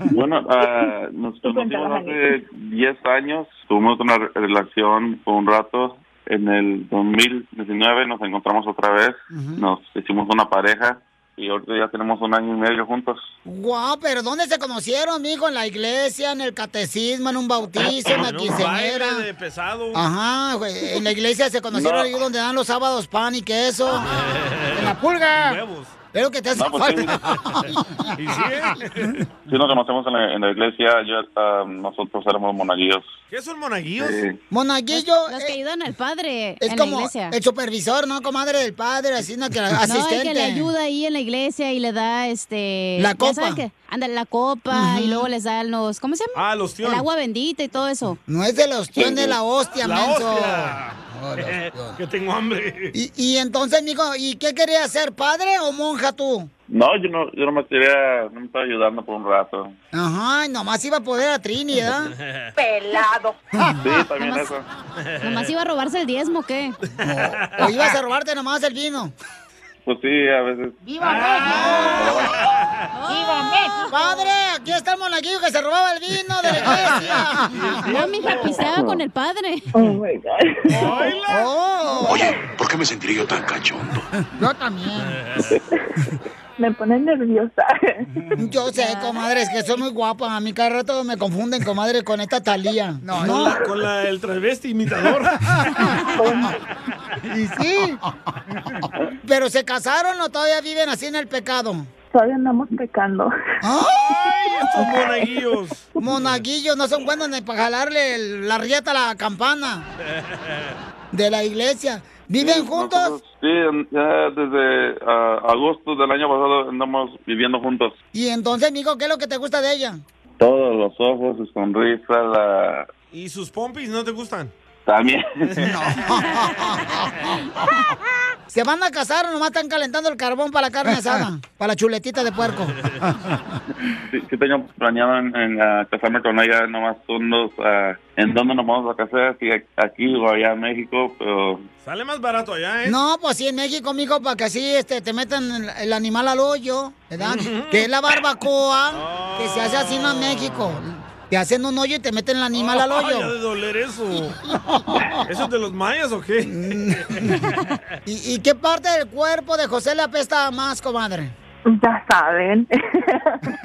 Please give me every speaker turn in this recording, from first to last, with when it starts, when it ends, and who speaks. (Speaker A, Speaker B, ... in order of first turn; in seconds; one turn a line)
Speaker A: 0.1-13.3
Speaker B: 1.4-2.5
Speaker C: 9.3-9.6
Speaker C: 13.4-19.2
Speaker D: 17.8-20.1
Speaker C: 19.9-24.1
Speaker A: 21.7-22.1
Speaker D: 24.1-25.9
Speaker C: 24.7-25.6
Speaker C: 26.1-28.4
Speaker A: 26.5-27.2
Speaker D: 28.2-29.2
Speaker A: 29.5-33.1
Speaker D: 33.3-34.2
Speaker A: 34.0-34.4
Speaker C: 34.5-35.6
Speaker E: 34.9-37.4
Speaker C: 36.6-40.7
Speaker E: 39.8-48.2
Speaker C: 43.0-43.6
Speaker C: 44.7-45.3
Speaker D: 46.4-47.1
Speaker C: 48.3-52.0
Speaker A: 49.0-49.3
Speaker D: 49.8-53.0
Speaker C: 52.9-56.5
Speaker A: 56.7-59.8
Speaker C: 59.9-62.1
Speaker D: 62.2-62.5
Speaker A: 63.8-64.6
Speaker E: 64.2-64.5
Speaker E: 65.2-66.8
Speaker C: 67.0-69.1
Speaker D: 67.0-67.9
Speaker A: 69.9-70.8
Speaker C: 70.8-72.3
Speaker D: 71.0-72.6
Speaker A: 71.9-72.3
Speaker E: 72.9-74.2
Speaker C: 73.1-77.8
Speaker D: 76.5-78.7
Speaker E: 77.8-79.7
Speaker A: 78.7-79.0
Speaker B: 79.7-81.2
Speaker D: 80.7-81.5
Speaker C: 81.3-82.2
Speaker F: 82.0-84.1
Speaker C: 84.4-85.2
Speaker B: 86.6-88.1
Speaker C: 88.4-93.6
Speaker E: 88.8-89.2
Speaker D: 93.1-95.5
Speaker B: 96.2-96.5
Speaker C: 97.3-98.0
Speaker C: 99.2-101.9
Speaker B: 102.1-103.3
Speaker C: 103.6-104.0
Speaker D: 103.9-105.8
Speaker B: 104.8-105.2
Speaker C: 106.0-109.9
Speaker D: 110.4-110.7
Speaker C: 111.1-113.2
Speaker A: 112.4-118.0
Speaker C: 118.1-120.0
Speaker A: 120.4-122.9
Speaker D: 123.1-124.5
Speaker A: 124.9-125.7
Speaker C: 125.6-127.0
Speaker C: 128.5-132.8
Speaker A: 134.1-141.7
Speaker D: 141.8-143.0
Speaker C: 142.8-153.3
Speaker D: 147.2-147.9
Speaker D: 148.9-150.8
Speaker D: 152.5-154.4
Speaker C: 154.5-155.2
Speaker D: 155.3-157.4
Speaker C: 156.5-157.3
Speaker C: 158.1-161.3
Speaker B: 161.7-163.5